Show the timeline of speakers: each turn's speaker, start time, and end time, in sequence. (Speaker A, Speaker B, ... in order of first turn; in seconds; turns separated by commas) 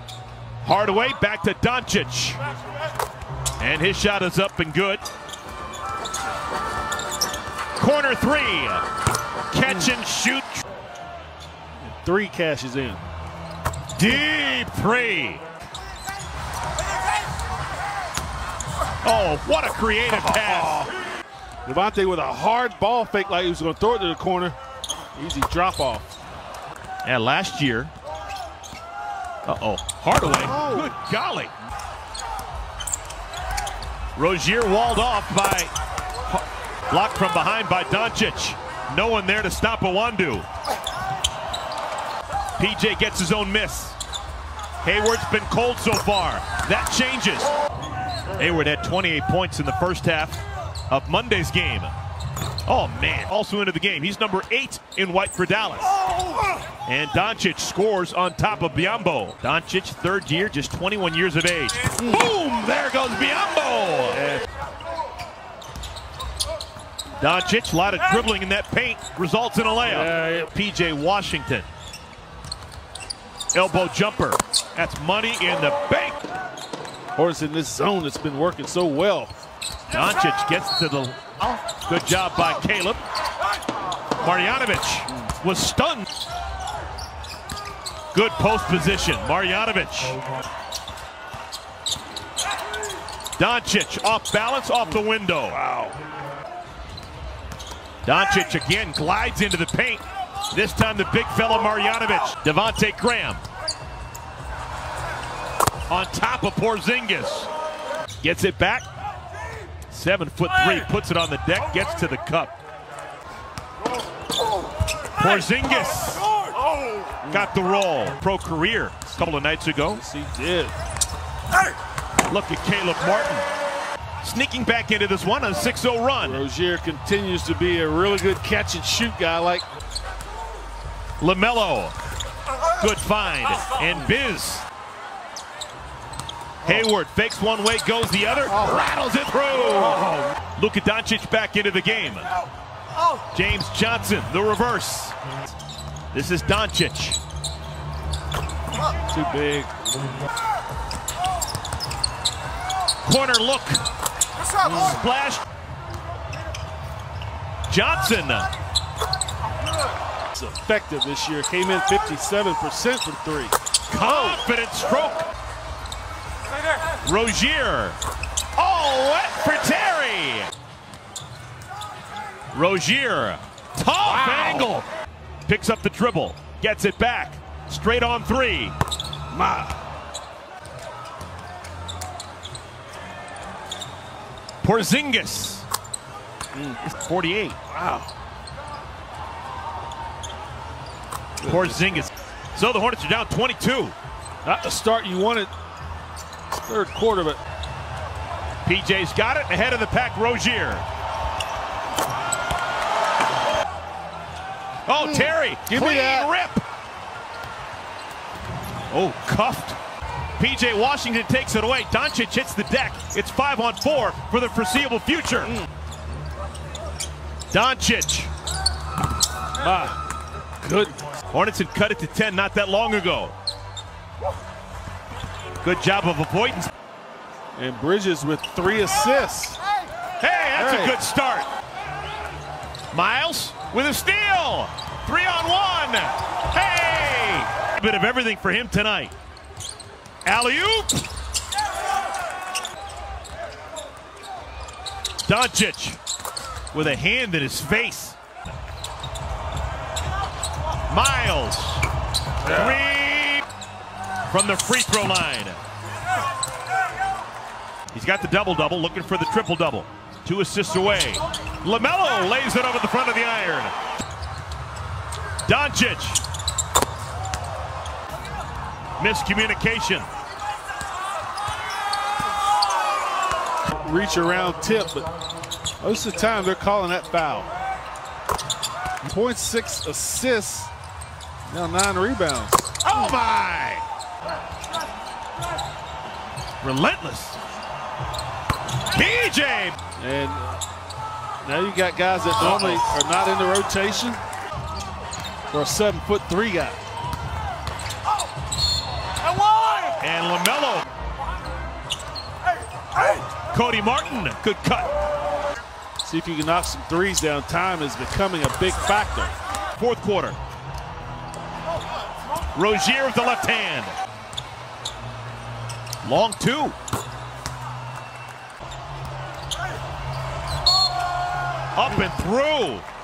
Speaker A: 0.6-2.4, Speaker A: 3.6-5.0, Speaker A: 7.8-8.8, Speaker A: 9.5-10.6, Speaker B: 11.8-13.0, Speaker A: 13.9-15.4, Speaker A: 19.0-20.9, Speaker B: 20.2-20.9, Speaker B: 21.6-24.6, Speaker B: 25.1-26.1, Speaker A: 27.0-27.9, Speaker A: 29.4-31.5, Speaker B: 30.3-30.9, Speaker A: 34.2-35.7, Speaker A: 36.3-40.5, Speaker A: 42.6-44.0, Speaker A: 44.8-47.5, Speaker A: 48.4-51.9, Speaker A: 52.7-55.9, Speaker A: 56.9-64.2, Speaker B: 62.0-62.3, Speaker B: 64.1-64.5, Speaker A: 67.2-71.7, Speaker B: 69.8-70.5, Speaker A: 73.5-76.2, Speaker B: 77.2-79.3, Speaker A: 79.9-83.0, Speaker A: 84.2-86.1, Speaker A: 88.1-90.2, Speaker A: 93.4-95.6, Speaker B: 95.5-96.0, Speaker A: 98.0-103.4, Speaker A: 105.9-107.5, Speaker A: 108.2-108.9, Speaker A: 109.9-112.5, Speaker A: 115.2-116.3, Speaker B: 117.2-117.5, Speaker A: 117.3-120.0, Speaker B: 119.9-120.8, Speaker A: 122.3-123.5, Speaker A: 124.2-126.4, Speaker B: 126.2-129.7, Speaker A: 131.2-131.9, Speaker A: 132.8-134.7, Speaker A: 136.6-142.3, Speaker A: 143.3-145.2, Speaker A: 146.1-147.2, Speaker B: 149.1-149.8, Speaker A: 153.0-153.9, Speaker B: 154.7-154.9, Speaker A: 154.7-155.4, Speaker A: 157.7-158.5, Speaker B: 160.3-163.6, Speaker A: 163.9-165.3, Speaker A: 167.0-168.0, Speaker A: 168.6-170.5, Speaker A: 172.5-174.9, Speaker B: 174.0-174.7, Speaker A: 175.5-178.8, Speaker B: 179.3-179.8, Speaker A: 184.6-185.7, Speaker B: 186.5-186.8, Speaker A: 186.8-187.6, Speaker B: 187.7-188.1, Speaker B: 191.4-192.0, Speaker A: 191.4-193.9, Speaker B: 194.4-195.5, Speaker B: 196.5-197.4, Speaker A: 198.6-200.8, Speaker A: 204.9-206.6, Speaker B: 205.0-206.3, Speaker A: 208.9-209.8, Speaker A: 210.4-215.6, Speaker A: 217.5-218.3, Speaker B: 219.6-220.0, Speaker B: 220.6-220.9, Speaker A: 221.3-223.3, Speaker A: 225.6-226.7, Speaker B: 227.6-229.6, Speaker A: 230.2-231.5, Speaker B: 230.5-231.0, Speaker A: 232.9-239.1, Speaker A: 240.2-241.1, Speaker A: 245.2-246.0, Speaker A: 246.7-248.2, Speaker A: 250.9-251.9, Speaker A: 252.4-253.4, Speaker A: 254.3-255.6, Speaker A: 257.9-263.7, Speaker A: 265.4-266.2, Speaker A: 269.0-270.1, Speaker B: 273.7-275.1, Speaker B: 275.8-277.5, Speaker B: 279.0-280.7, Speaker B: 281.5-282.7, Speaker A: 282.8-283.8, Speaker A: 286.6-287.4, Speaker A: 288.9-289.8, Speaker B: 290.0-290.6, Speaker B: 291.4-294.2, Speaker A: 292.4-292.9, Speaker B: 295.5-296.8, Speaker A: 300.0-300.9, Speaker A: 303.3-304.9, Speaker B: 306.0-309.3, Speaker A: 309.8-310.4, Speaker A: 312.5-314.0, Speaker A: 316.0-316.8, Speaker A: 321.8-322.9